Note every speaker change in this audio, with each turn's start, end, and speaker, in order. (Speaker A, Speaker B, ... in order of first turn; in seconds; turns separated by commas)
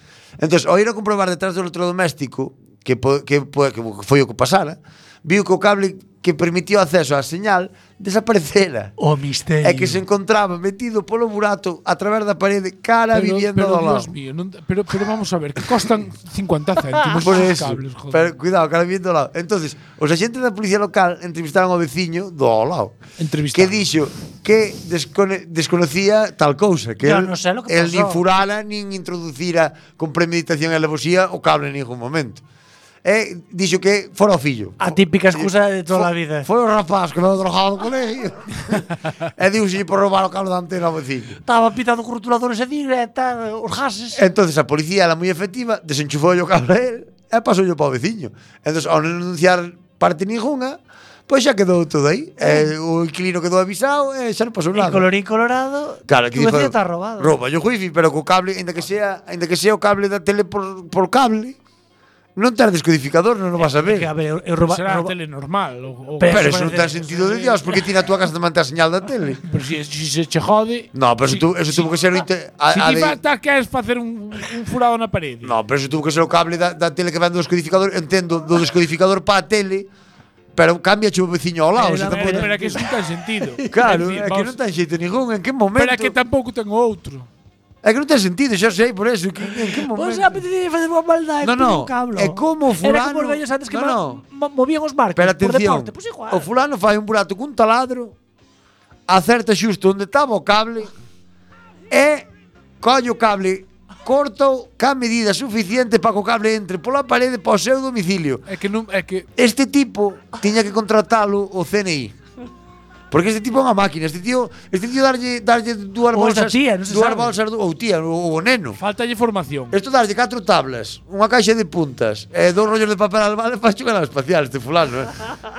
Speaker A: 0.4-8.9, Speaker B: 9.0-10.0, Speaker A: 9.6-14.1, Speaker C: 13.1-18.3, Speaker A: 17.1-22.9, Speaker C: 23.2-23.9, Speaker A: 23.5-32.4, Speaker B: 27.0-28.2, Speaker A: 33.0-41.4, Speaker B: 34.8-36.5, Speaker B: 41.4-44.2, Speaker A: 44.1-55.1, Speaker B: 54.7-57.4, Speaker A: 56.1-61.6, Speaker A: 62.4-64.1, Speaker B: 63.6-65.1, Speaker C: 64.6-67.3, Speaker B: 66.2-67.5, Speaker A: 66.3-69.4, Speaker C: 69.4-72.0, Speaker A: 70.9-73.2, Speaker C: 72.7-75.5, Speaker A: 75.4-79.9, Speaker A: 80.5-82.8, Speaker B: 81.8-83.7, Speaker C: 81.8-84.5, Speaker A: 83.7-86.2, Speaker C: 85.8-87.3, Speaker A: 87.8-90.4, Speaker B: 89.7-96.5, Speaker A: 91.4-94.2, Speaker A: 95.2-98.1, Speaker A: 99.1-100.9, Speaker A: 101.9-102.3, Speaker A: 102.8-108.4, Speaker C: 108.5-109.3, Speaker A: 109.4-112.1, Speaker A: 113.1-118.8, Speaker B: 116.1-117.3, Speaker C: 118.8-119.8, Speaker A: 119.7-125.2